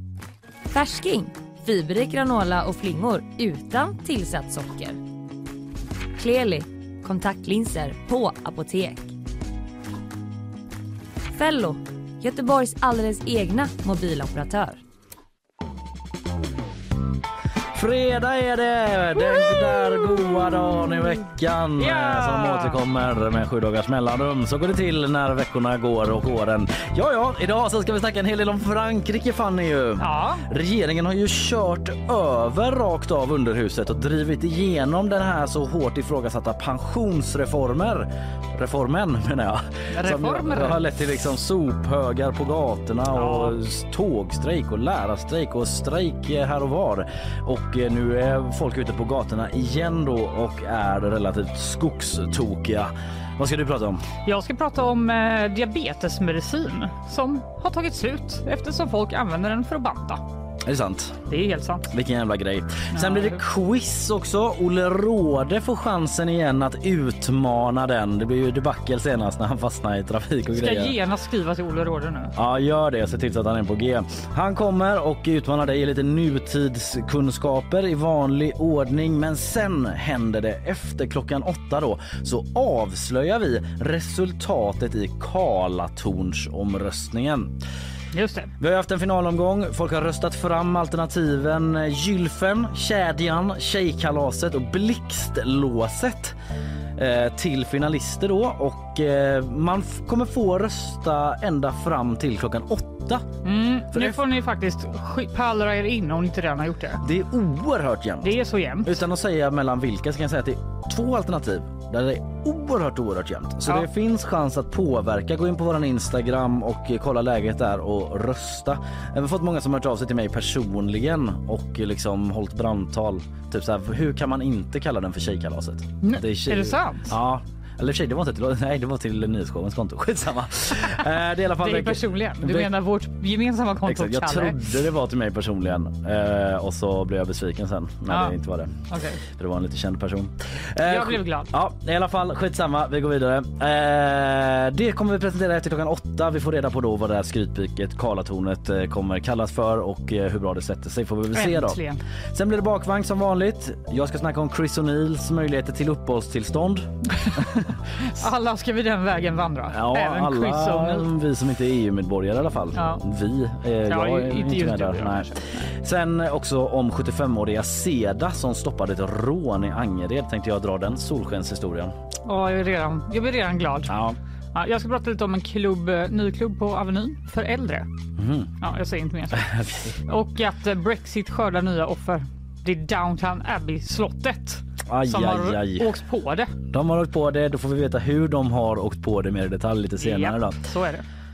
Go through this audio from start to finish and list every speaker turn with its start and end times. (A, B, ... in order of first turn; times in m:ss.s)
0:00.7-0:05.0 A
0:06.2-0:09.1 A
0:11.3-0:14.8 A
0:17.7-0:54.1 B
0:19.4-0:19.7 C
0:21.8-0:22.8 C
0:30.0-0:30.4 C
0:39.9-0:40.8 C
0:43.1-0:43.6 C
0:54.2-1:00.2 C
1:00.6-1:01.2 B
1:01.3-1:01.9 C
1:01.9-1:11.0 B
1:02.9-1:03.4 C
1:10.5-1:12.3 C
1:12.3-1:27.6 B
1:28.1-1:28.5 C
1:28.6-1:36.4 B
1:37.0-1:43.3 B
1:43.4-1:47.0 C
1:43.9-1:44.2 B
1:47.0-2:12.7 B
1:48.2-1:49.0 C
2:06.0-2:07.1 C
2:11.6-2:14.6 C
2:13.8-2:37.4 B
2:18.1-2:18.4 C
2:18.9-2:19.2 C
2:20.8-2:21.5 C
2:31.3-2:32.0 C
2:37.1-2:41.1 C
2:39.7-2:51.9 B
2:42.7-2:43.0 C
2:43.9-2:45.7 C
2:52.2-2:53.9 C
2:53.9-2:54.2 B
2:54.5-2:57.9 C
2:58.2-2:58.5 B
2:58.6-2:59.5 C
2:59.3-3:00.0 B
3:00.0-3:06.5 C
3:04.8-3:05.9 B
3:06.6-3:10.6 B
3:10.0-3:11.0 C